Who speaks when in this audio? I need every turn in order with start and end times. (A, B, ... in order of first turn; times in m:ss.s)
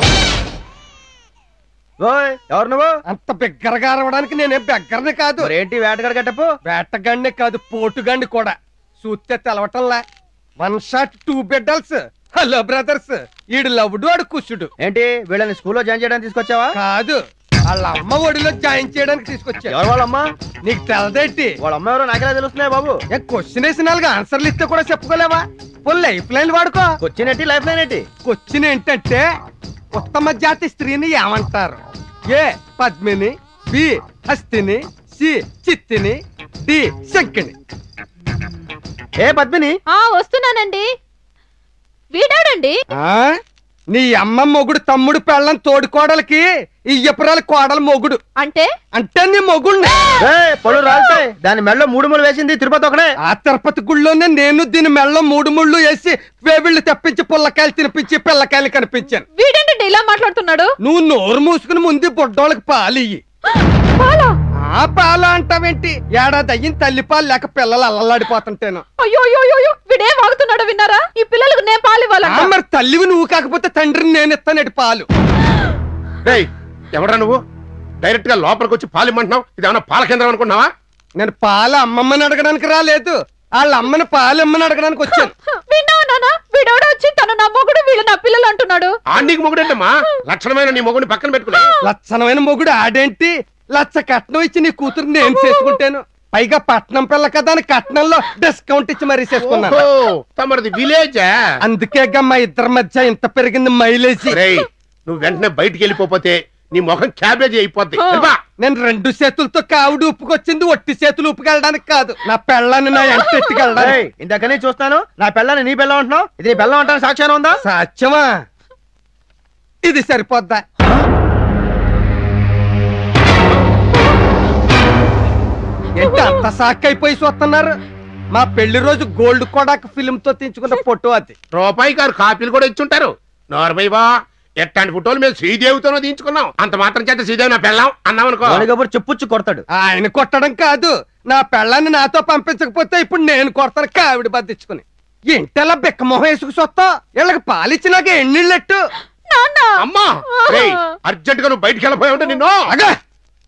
0:02.0-0:02.9 A
0:03.1-0:05.5 B
0:05.4-0:06.5 A
0:06.6-0:10.0 B
0:10.6-0:14.7 B
0:14.8-0:16.7 A
0:16.7-0:19.7 B
0:19.6-0:20.2 A
0:20.6-0:21.6 B
0:21.6-0:23.0 A
0:23.1-0:27.0 B
0:27.0-0:28.1 A
0:28.2-0:29.2 B
0:29.9-0:37.5 B
0:39.2-0:39.8 A
0:39.9-0:40.9 C
0:42.1-0:42.8 C
0:43.0-0:43.4 B
0:43.9-0:48.2 B
0:48.4-0:48.6 C
0:48.9-0:49.9 B
0:50.2-0:53.1 A
0:53.2-0:59.2 B
0:59.3-1:00.7 C
1:00.8-1:03.2 B
1:04.0-1:04.3 C
1:04.7-1:08.8 B
1:09.0-1:12.5 C
1:12.2-1:15.0 B
1:16.2-1:17.4 D
1:18.0-1:20.7 D
1:21.2-1:25.3 B
1:25.7-1:28.9 C
1:29.1-1:31.7 D
1:31.8-1:39.8 B
1:39.4-1:41.3 D
1:41.6-1:44.4 B
1:44.3-1:48.4 D
1:48.6-1:54.0 B
1:53.8-1:57.6 A
1:57.6-1:58.4 B
1:59.8-2:00.6 B
2:06.0-2:07.8 B
2:08.3-2:11.3 B
2:11.5-2:14.1 D
2:14.6-2:18.7 D
2:18.5-2:19.6 A
2:19.7-2:28.8 B
2:29.8-2:32.7 D
2:32.7-2:33.0 B